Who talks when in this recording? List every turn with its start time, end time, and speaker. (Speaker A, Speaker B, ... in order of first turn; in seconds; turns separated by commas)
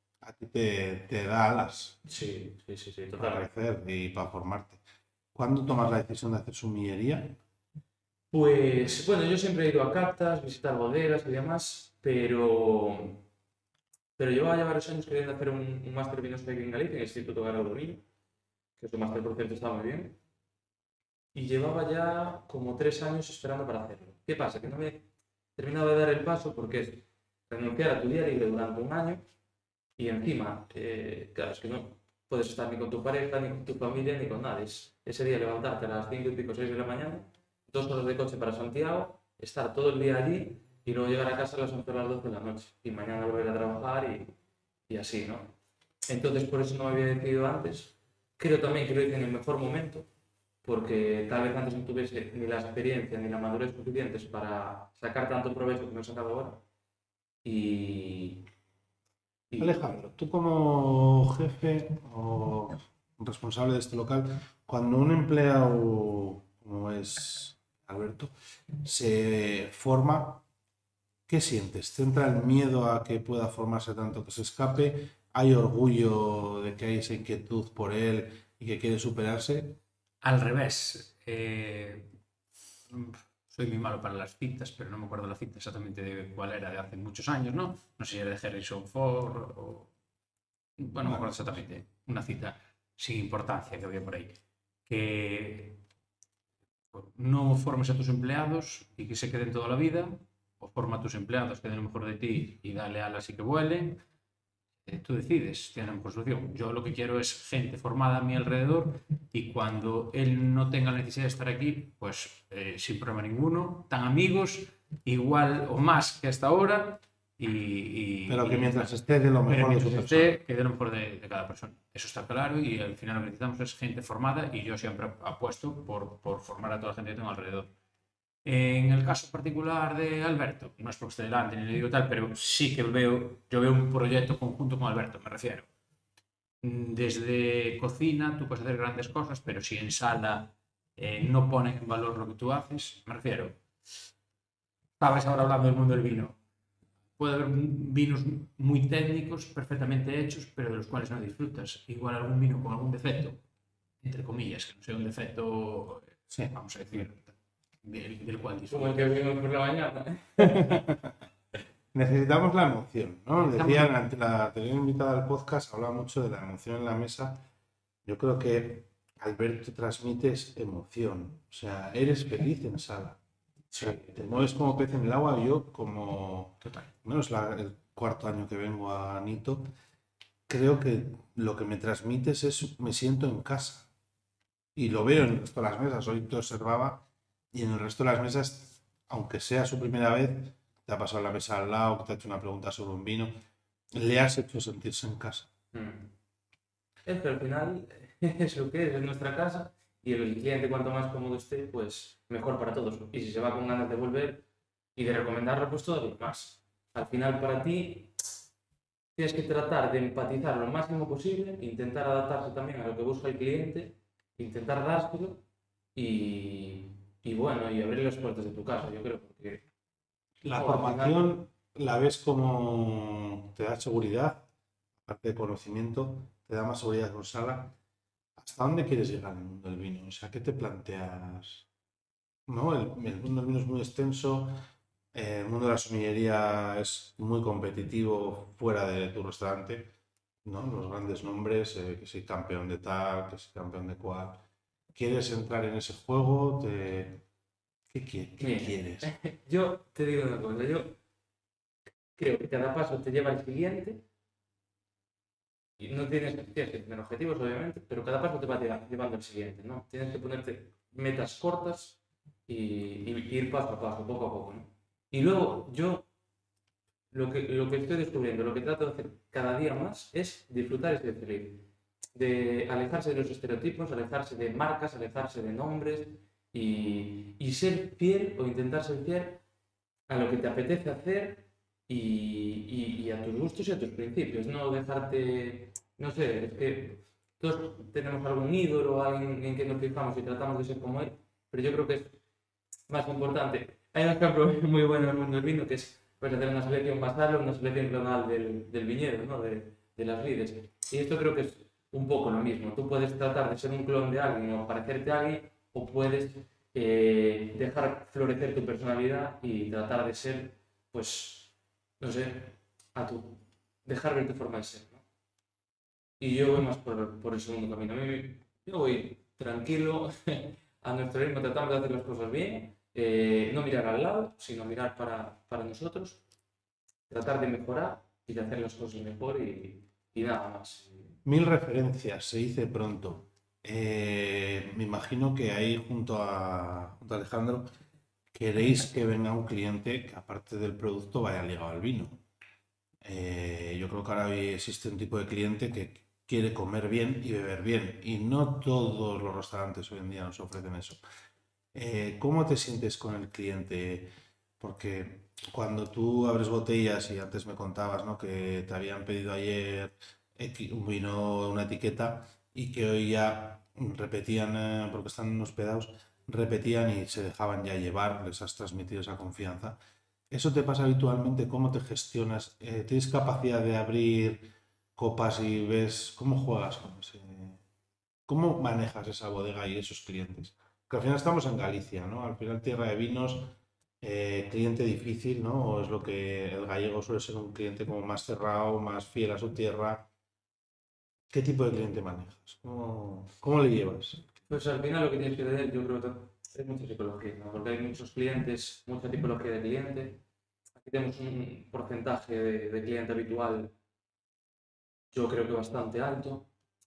Speaker A: 0.2-2.0, Speaker B: 2.1-3.5, Speaker A: 3.2-4.8, Speaker A: 5.3-7.4, Speaker B: 8.3-13.2, Speaker B: 14.2-18.0, Speaker B: 18.8-20.2, Speaker B: 21.3-25.0, Speaker B: 25.6-29.2, Speaker B: 30.0-44.3, Speaker B: 44.9-45.5, Speaker B: 46.1-50.0, Speaker B: 50.6-56.6, Speaker B: 57.4-58.5, Speaker B: 59.5-59.9, Speaker A: 59.6-70.4, Speaker A: 71.3-79.8, Speaker C: 80.2-82.1, Speaker C: 82.9-89.9, Speaker C: 90.8-95.8, Speaker A: 91.0-91.6, Speaker C: 96.9-104.0, Speaker C: 104.8-118.9, Speaker A: 118.3-120.3, Speaker C: 119.5-127.7, Speaker C: 128.4-135.7, Speaker C: 136.6-143.6, Speaker C: 145.0-146.4, Speaker C: 147.2-153.4, Speaker C: 154.0-159.1, Speaker A: 156.3-157.0, Speaker B: 158.7-160.9, Speaker A: 160.4-161.1, Speaker A: 161.9-167.4, Speaker C: 163.3-163.9, Speaker A: 168.0-173.2, Speaker C: 173.8-174.2, Speaker A: 173.8-179.7, Speaker A: 180.5-183.9, Speaker A: 184.7-193.3, Speaker A: 193.9-195.5, Speaker B: 195.7-196.1, Speaker B: 197.1-204.4, Speaker B: 204.9-208.1, Speaker B: 209.1-215.4, Speaker B: 215.9-219.6, Speaker A: 220.4-224.4, Speaker B: 220.6-221.2, Speaker A: 225.0-227.7, Speaker A: 228.4-231.7, Speaker A: 232.5-234.6, Speaker A: 235.1-239.9, Speaker A: 240.4-244.4, Speaker A: 244.9-247.2, Speaker A: 247.9-249.1, Speaker B: 248.4-251.0, Speaker B: 252.2-254.0, Speaker B: 255.8-266.0, Speaker B: 267.1-279.4, Speaker B: 280.1-292.1, Speaker B: 292.9-315.0, Speaker B: 316.2-326.2, Speaker B: 327.1-330.9, Speaker A: 331.2-337.7, Speaker A: 338.3-342.2, Speaker A: 343.0-351.0, Speaker A: 351.7-369.8, Speaker A: 370.3-377.6, Speaker A: 378.3-390.1, Speaker A: 391.3-394.2, Speaker B: 394.5-400.2, Speaker B: 400.8-403.7, Speaker B: 405.1-406.5